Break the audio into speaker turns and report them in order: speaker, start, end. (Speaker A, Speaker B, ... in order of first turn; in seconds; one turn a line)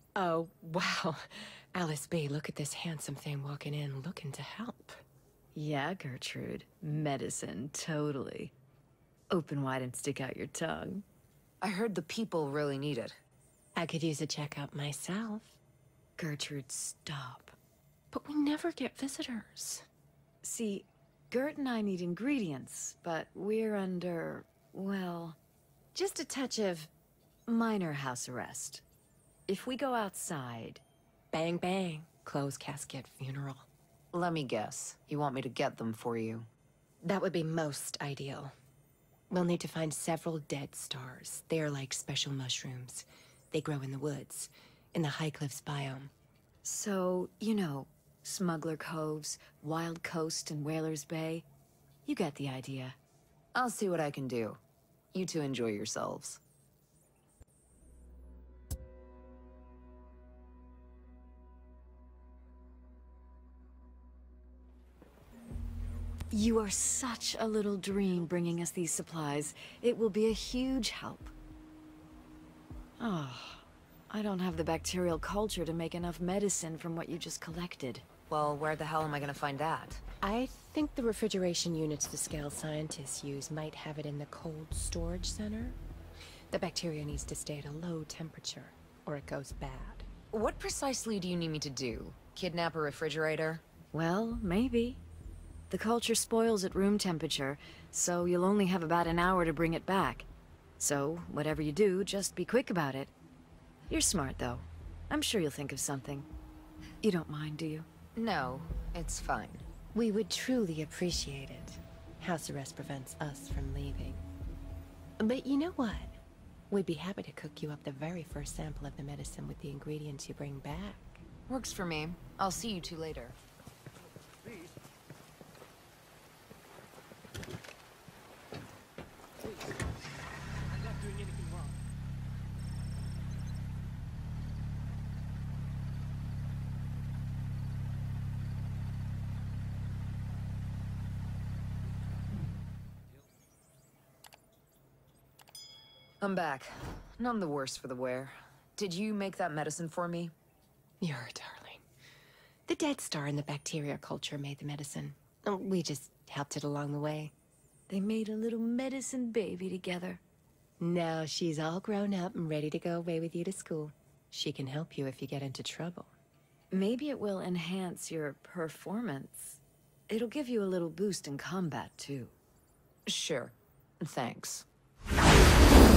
Speaker A: 0.2-5.0
Speaker B: 5.5-8.5
Speaker B: 9.3-11.1
Speaker C: 11.6-13.2
Speaker A: 13.8-15.6
Speaker B: 16.2-17.6
Speaker A: 18.1-19.9
Speaker B: 20.4-25.4
Speaker B: 25.9-26.9
Speaker B: 27.5-28.8
Speaker B: 29.5-30.8
Speaker A: 31.3-33.7
Speaker C: 34.1-36.5
Speaker A: 37.0-38.5
Speaker A: 39.3-46.1
Speaker B: 46.6-51.5
Speaker B: 52.0-53.0
Speaker C: 53.5-54.6
Speaker C: 55.1-56.4
Speaker B: 66.3-71.3
Speaker B: 73.0-78.1
Speaker C: 78.3-80.0
Speaker A: 80.2-85.8
Speaker A: 86.5-90.1
Speaker C: 90.3-93.6
Speaker B: 93.9-95.0
Speaker B: 95.7-100.3
Speaker B: 100.8-103.1
Speaker B: 103.9-106.3
Speaker B: 107.0-107.9
Speaker C: 108.2-109.7
Speaker A: 109.9-114.2
Speaker A: 115.2-116.2
Speaker A: 116.7-121.2
Speaker C: 121.5-123.4
Speaker C: 146.2-150.3
Speaker A: 151.0-151.8
Speaker A: 152.7-157.3
Speaker B: 157.9-160.2
Speaker A: 160.8-166.1
Speaker B: 166.7-172.3
Speaker C: 173.1-174.7